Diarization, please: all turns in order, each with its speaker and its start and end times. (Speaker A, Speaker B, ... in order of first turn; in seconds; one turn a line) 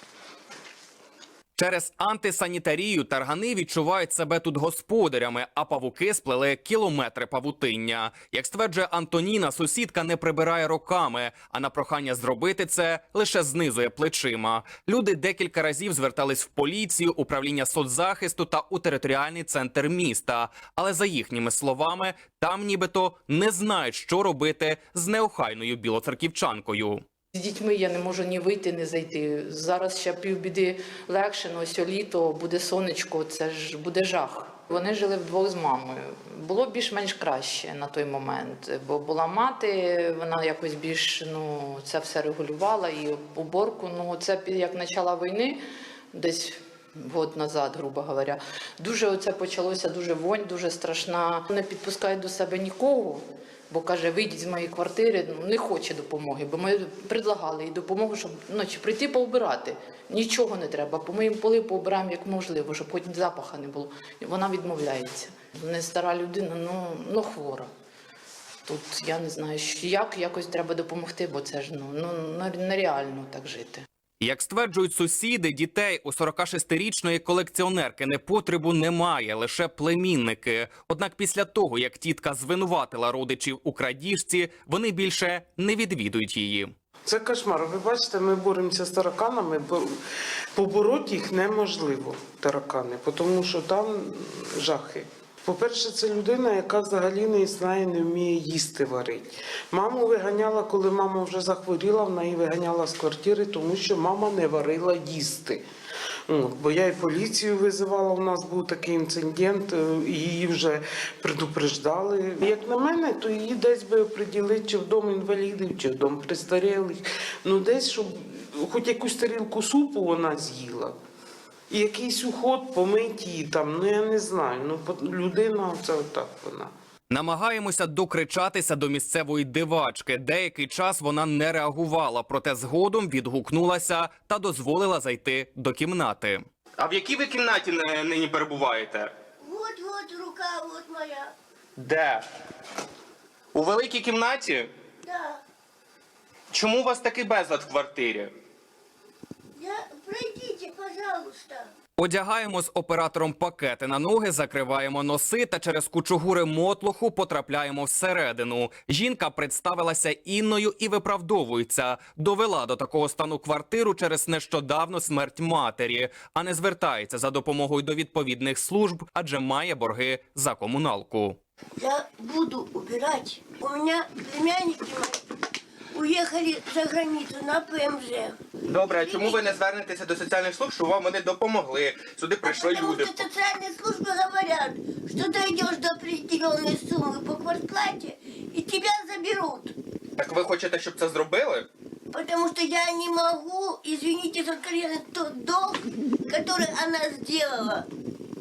Speaker A: 1.6-27.0
Speaker B: 27.3-45.6
Speaker B: 46.1-67.7
Speaker B: 68.7-73.8
Speaker A: 74.2-86.7
Speaker C: 87.0-90.0
Speaker C: 90.5-105.6
Speaker C: 106.3-121.0
Speaker C: 121.7-126.7
Speaker A: 127.1-136.4
Speaker D: 136.8-139.1
Speaker E: 139.4-141.3
Speaker D: 141.8-142.2
Speaker D: 143.5-144.7
Speaker E: 145.0-145.4
Speaker D: 146.5-148.3
Speaker E: 149.6-151.7
Speaker A: 152.0-171.4
Speaker E: 171.8-175.2
Speaker E: 175.9-179.5
Speaker D: 178.7-183.3
Speaker E: 182.4-189.7
Speaker D: 190.2-191.7
Speaker E: 192.1-197.8